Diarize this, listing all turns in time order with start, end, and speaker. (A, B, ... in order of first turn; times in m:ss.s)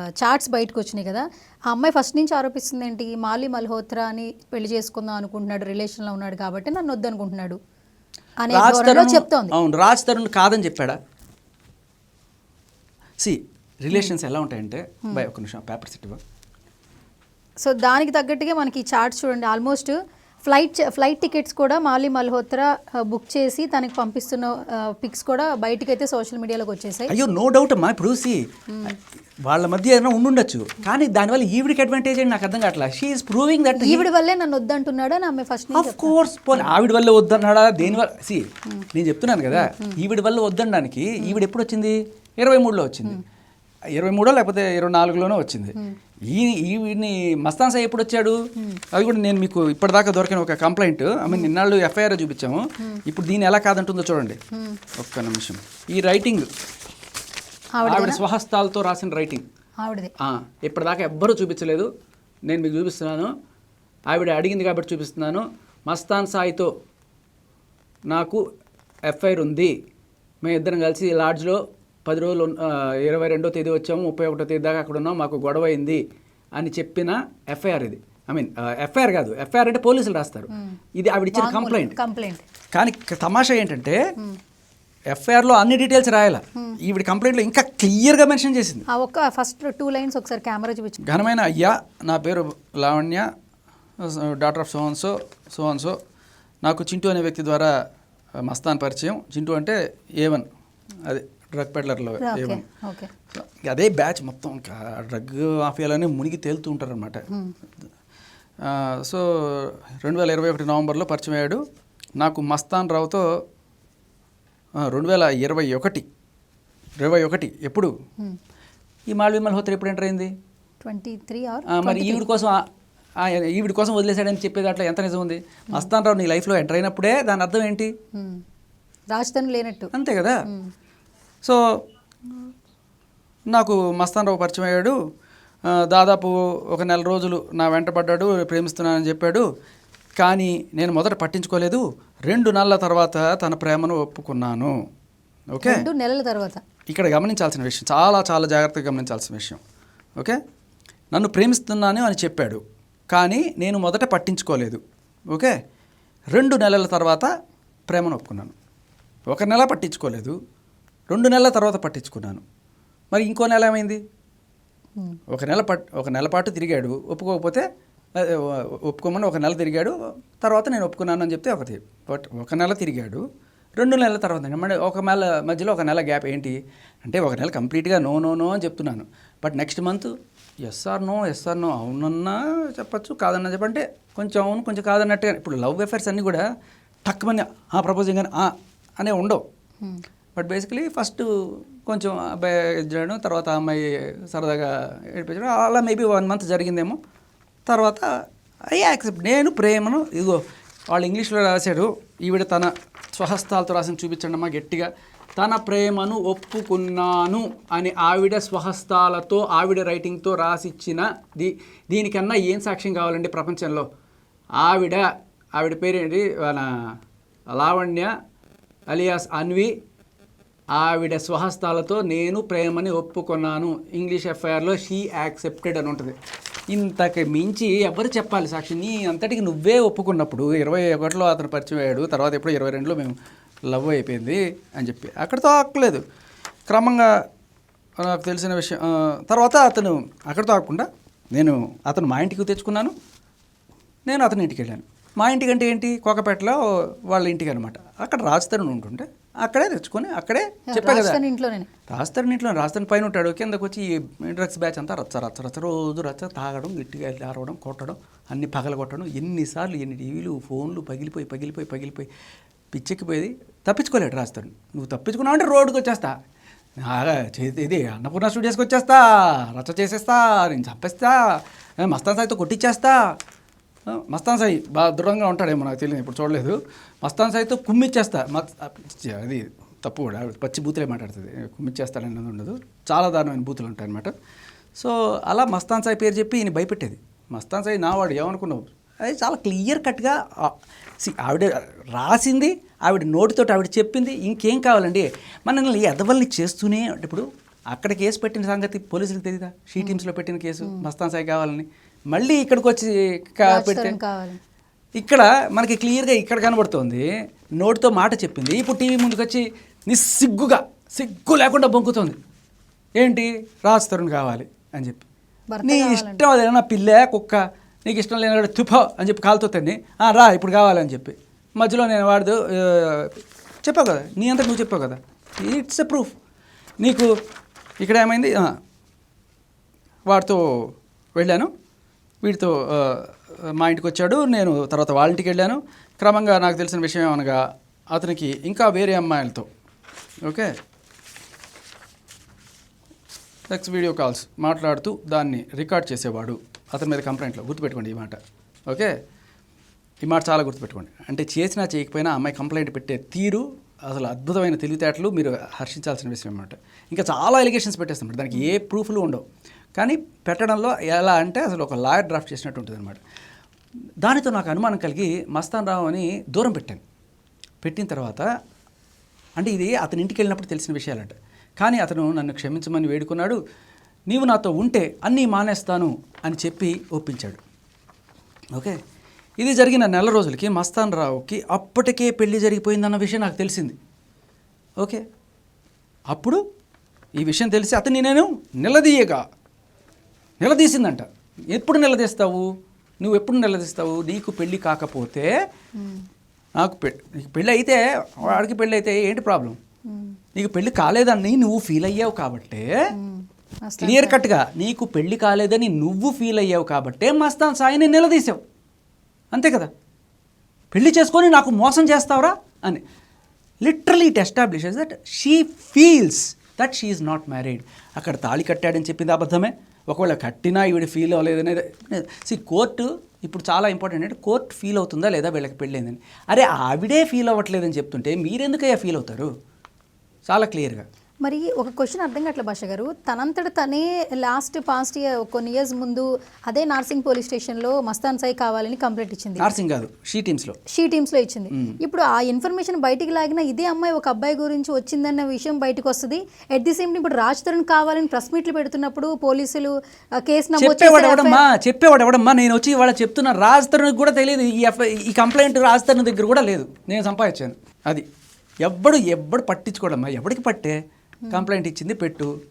0:00.2-0:07.6 A
0:08.4-0:09.5 A
0:08.5-0:11.0 B
0:13.2-0:16.2 B
0:17.6-0:20.0 A
0:20.5-0:27.1 A
0:27.1-0:28.9 B
0:29.4-0:34.1 B
0:33.8-0:36.7 A
0:35.7-0:43.2 B
0:39.5-0:40.0 A
0:44.0-0:45.8 B
0:46.3-0:48.4 B
0:48.9-0:54.4 B
0:54.5-0:54.8 A
0:55.0-0:56.5 B
0:57.8-0:58.2 A
0:57.8-0:59.4 B
0:59.8-1:00.1 A
1:00.2-1:01.9 B
1:02.5-1:03.3 B
1:04.1-1:06.7 B
1:08.1-1:08.4 B
1:09.1-1:09.8 B
1:10.4-1:16.0 B
1:16.6-1:22.0 B
1:20.5-1:20.8 A
1:21.3-1:22.4 A
1:22.7-1:24.0 B
1:25.1-1:28.8 B
1:28.9-1:31.1 A
1:31.0-1:33.3 B
1:34.0-1:36.0 B
1:36.6-1:37.7 B
1:38.4-1:40.5 B
1:41.1-1:42.6 B
1:42.2-1:43.1 A
1:43.3-1:47.3 B
1:48.6-1:51.6 B
1:52.2-1:53.2 B
1:54.8-1:56.0 B
1:57.0-1:57.9 B
1:59.1-2:00.3 B
2:00.8-2:02.2 A
2:01.7-2:02.6 B
2:03.2-2:07.9 B
2:08.1-2:08.4 A
2:09.1-2:09.9 A
2:09.9-2:10.4 B
2:13.5-2:15.0 B
2:15.7-2:19.5 B
2:20.2-2:24.7 B
2:25.5-2:25.9 B
2:25.6-2:26.6 A
2:26.9-2:29.6 B
2:31.1-2:35.5 B
2:36.3-2:37.3 B
2:37.9-2:38.5 B
2:39.3-2:40.4 B
2:41.1-2:42.4 B
2:43.1-2:44.0 B
2:45.3-2:53.2 B
2:53.8-3:00.1 B
3:00.6-3:06.4 B
3:07.0-3:09.4 B
3:10.4-3:17.0 B
3:17.7-3:18.1 B
3:18.7-3:33.9 B
3:34.6-3:36.9 B
3:37.5-3:38.1 B
3:38.9-3:39.7 B
3:40.7-3:46.2 B
3:46.7-3:53.2 B
3:53.7-3:56.0 B
3:56.7-3:57.1 B
3:58.0-4:02.9 B
4:04.1-4:11.2 B
4:10.7-4:11.7 A
4:11.9-4:22.1 B
4:22.7-4:26.2 B
4:26.8-4:33.2 B
4:33.9-4:44.1 B
4:44.8-5:04.0 B
5:03.5-5:04.4 A
5:05.0-5:07.1 B
5:07.6-5:12.2 B
5:13.0-5:15.0 B
5:15.5-5:16.2 A
5:15.6-5:26.1 B
5:26.8-5:27.1 B
5:27.8-5:28.5 B
5:30.1-5:30.4 B
5:31.2-5:31.5 B
5:32.2-5:39.5 B
5:40.2-5:40.5 B
5:43.5-5:48.9 B
5:50.0-5:59.2 B
5:59.8-6:03.0 B
6:04.0-6:06.8 B
6:07.6-6:08.3 B
6:09.4-6:13.4 B
6:14.1-6:17.4 B
6:19.4-6:23.8 B
6:26.1-6:26.4 B
6:27.2-6:29.2 B
6:30.4-6:32.5 B
6:33.0-6:35.3 B
6:35.8-6:36.0 A
6:36.6-6:39.6 B
6:39.9-6:40.2 A
6:40.4-6:42.7 B
6:43.0-6:44.2 A
6:43.8-6:48.4 B
6:49.3-6:49.7 B
6:50.7-6:52.8 B
6:53.6-7:09.3 B
7:10.3-7:10.8 B
7:11.2-7:19.5 A
7:19.4-7:20.6 B
7:20.7-7:31.4 A
7:21.5-7:21.8 B
7:30.6-7:38.1 B
7:38.6-7:40.8 B
7:41.3-7:42.3 B